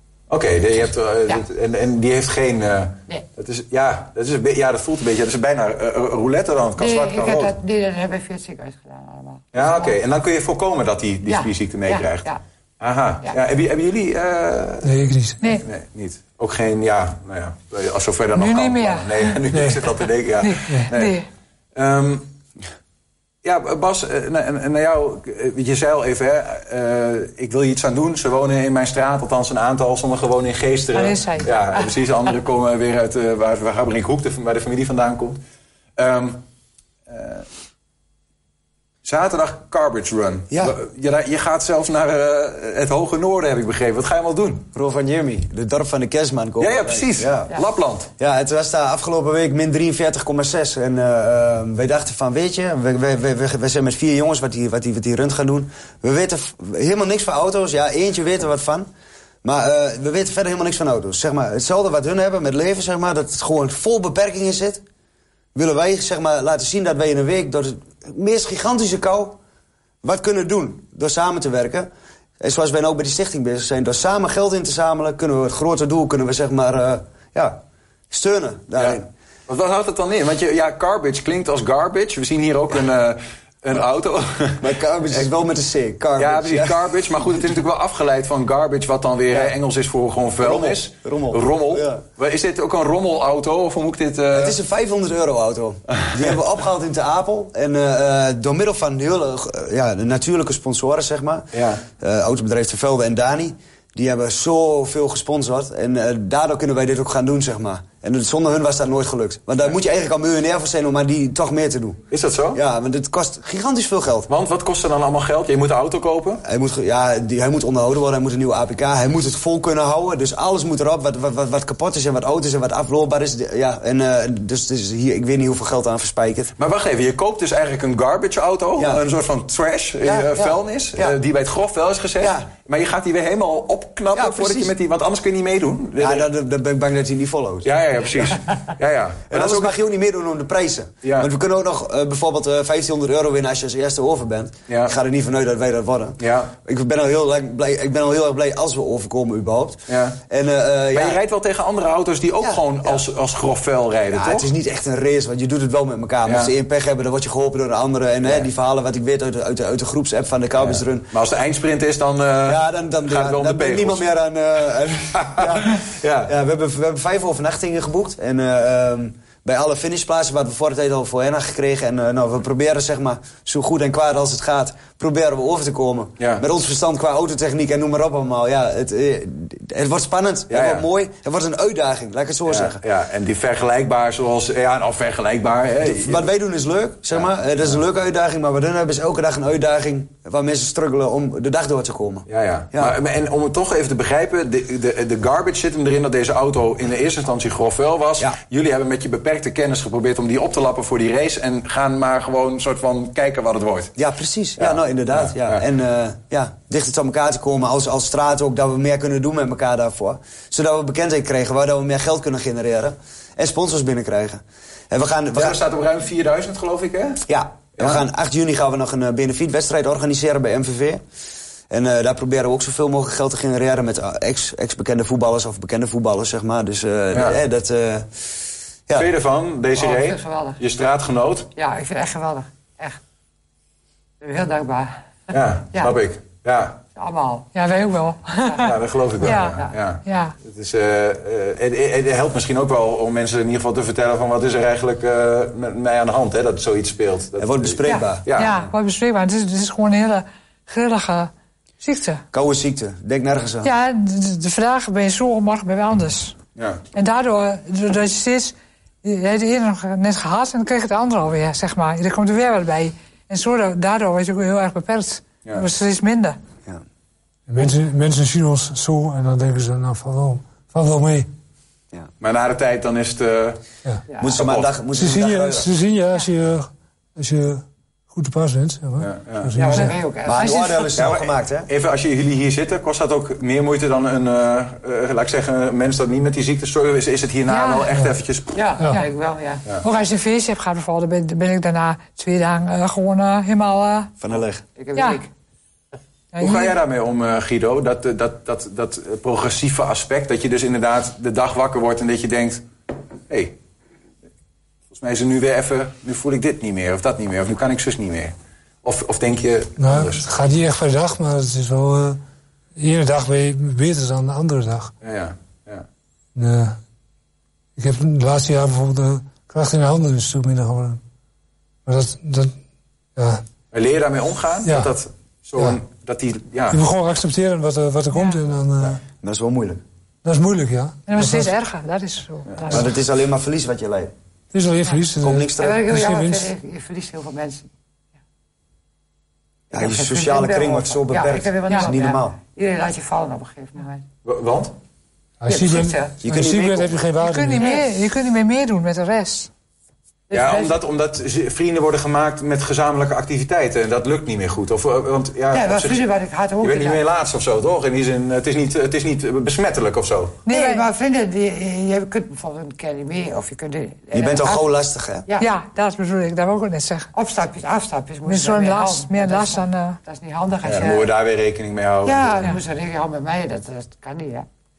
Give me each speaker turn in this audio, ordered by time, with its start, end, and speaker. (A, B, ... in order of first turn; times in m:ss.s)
0:00.3-0:07.5 A
0:06.8-0:10.0 B
0:09.5-0:12.3 A
0:11.2-0:12.4 B
0:12.8-0:21.2 A
0:14.8-0:15.5 C
0:18.3-0:19.5 D
0:19.5-0:19.8 C
0:20.4-0:21.3 D
0:21.8-0:22.3 A
0:23.4-0:35.4 A
0:30.9-0:31.5 D
0:36.0-0:36.4 A
0:37.1-0:37.5 A
0:39.0-0:44.7 A
0:40.5-0:40.8 E
0:44.7-0:47.5 E
0:46.6-0:48.1 A
0:48.2-0:58.9 E
0:59.4-1:04.8 E
1:05.5-1:09.4 E
1:10.0-1:11.9 E
1:12.4-1:17.6 E
1:18.1-1:19.1 E
1:18.8-1:25.2 A
1:24.6-1:26.8 E
1:26.2-1:34.6 A
1:30.4-1:32.0 E
1:34.3-1:52.0 E
1:36.0-1:36.3 A
1:41.5-1:41.8 A
1:52.1-1:52.6 A
1:52.5-1:54.3 E
1:54.3-1:56.4 A
1:56.4-2:06.5 E
2:06.6-2:16.3 A
2:10.0-2:11.2 E
2:12.2-2:12.5 E
2:14.1-2:14.7 E
2:16.0-2:17.7 E
2:17.6-2:19.8 A
2:19.3-2:31.2 E
2:21.0-2:21.3 A
2:24.7-2:24.9 A
2:26.2-2:26.5 A
2:29.9-2:30.2 A
2:30.9-2:34.5 A
2:32.4-2:33.0 E
2:34.1-2:41.1 E
2:36.2-2:36.5 A
2:40.6-2:44.0 A
2:42.5-3:02.8 E
2:45.1-2:46.3 A
2:56.2-2:56.4 A
3:00.5-3:00.9 A
3:02.5-3:06.2 A
3:05.8-3:13.0 E
3:07.1-3:07.8 A
3:12.3-3:23.9 A
3:24.0-3:35.6 E
3:24.6-3:25.6 A
3:35.3-3:37.2 A
3:37.3-3:41.0 E
3:37.8-3:38.0 A
3:41.7-3:48.1 E
3:47.1-3:47.4 A
3:48.9-3:51.5 A
3:49.8-3:50.6 B
3:51.5-3:53.0 B
3:54.2-3:54.9 B
3:55.3-3:56.8 A
3:57.0-3:57.5 B
3:57.5-4:00.4 D
3:58.4-3:59.8 B
3:58.6-4:08.5 A
4:07.4-4:08.7 E
4:07.8-4:08.2 B
4:08.4-4:12.2 D
4:12.3-4:13.7 E
4:13.6-4:16.4 D
4:16.6-4:16.8 A
4:16.9-4:26.4 D
4:27.5-4:31.3 C
4:32.2-4:33.6 A
4:34.1-4:34.4 B
4:34.2-4:35.7 E
4:34.3-4:34.7 A
4:35.0-4:40.0 C
4:39.0-4:39.5 A
4:39.5-4:40.9 B
4:40.2-4:41.7 E
4:41.0-4:48.6 A
4:47.5-4:47.9 D
4:48.5-4:49.6 B
4:49.8-4:54.1 D
4:54.2-4:54.6 E
4:54.8-4:55.3 B
4:55.0-4:55.2 D
4:56.3-4:56.8 D
4:56.4-5:02.6 A
5:03.3-5:03.6 A
5:04.9-5:10.2 A
5:09.8-5:12.2 C
5:12.8-5:14.9 C
5:15.0-5:15.9 A
5:16.4-5:16.8 C
5:17.8-5:21.0 C
5:21.9-5:22.5 C
5:23.2-5:23.4 C
5:23.7-5:26.8 A
5:24.6-5:24.9 C
5:26.7-5:29.0 C
5:28.1-5:28.4 D
5:29.2-5:29.8 E
5:30.2-5:31.5 C
5:31.1-5:32.9 D
5:32.5-5:32.9 A
5:32.7-5:34.1 E
5:34.5-5:36.5 C
5:35.2-5:35.9 E
5:35.6-5:37.7 B
5:39.7-5:44.0 B
5:39.7-5:42.4 E
5:44.2-5:44.8 A
5:45.4-5:47.8 C
5:45.5-5:46.2 B
5:46.2-5:46.9 E
5:47.2-5:49.5 D
5:47.6-5:47.9 B
5:50.3-5:50.8 B
5:50.3-5:56.0 A
5:55.5-5:57.0 B
5:56.6-6:00.4 A
6:00.5-6:00.9 D
6:00.5-6:04.6 B
6:04.1-6:05.3 E
6:05.3-6:05.5 B
6:05.4-6:07.1 D
6:07.1-6:11.1 B
6:08.2-6:10.0 D
6:10.6-6:12.5 A
6:12.0-6:14.5 B